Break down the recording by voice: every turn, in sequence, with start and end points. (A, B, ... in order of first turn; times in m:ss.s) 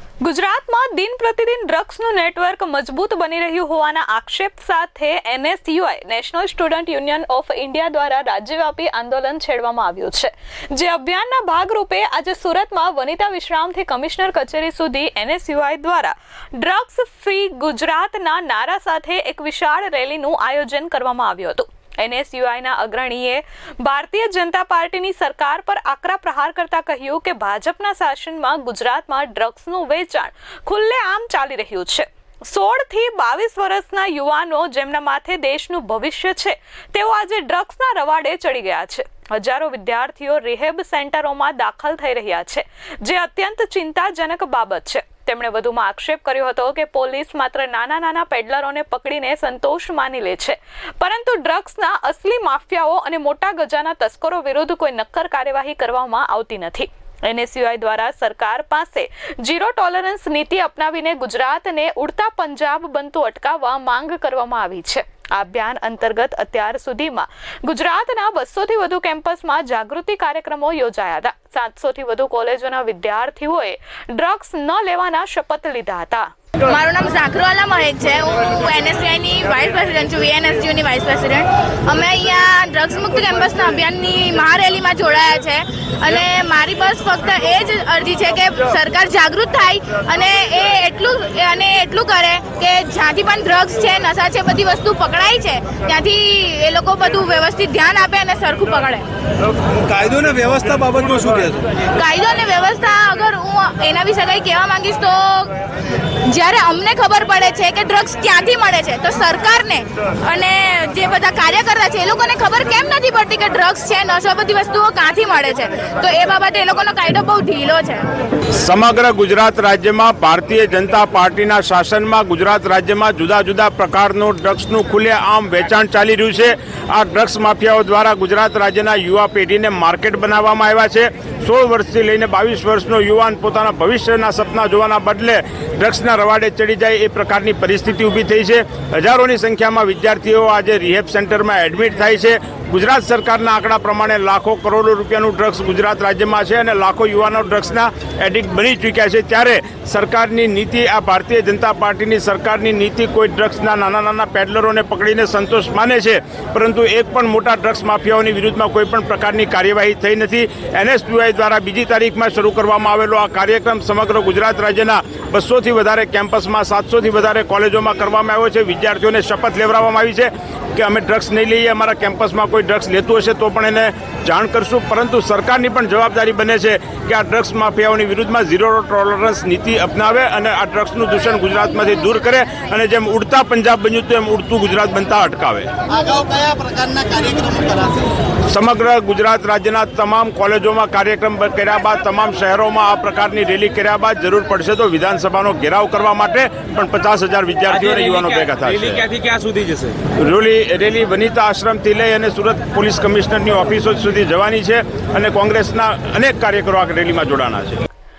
0:00.2-1:16.3 A
1:16.7-1:39.0 B
1:39.8-1:41.8 C
1:41.8-1:45.5 B
1:46.3-1:58.1 B
1:58.5-3:05.7 D
3:06.0-3:08.0 C
3:08.5-3:19.0 D
3:17.7-3:20.1 E
3:20.1-3:27.8 D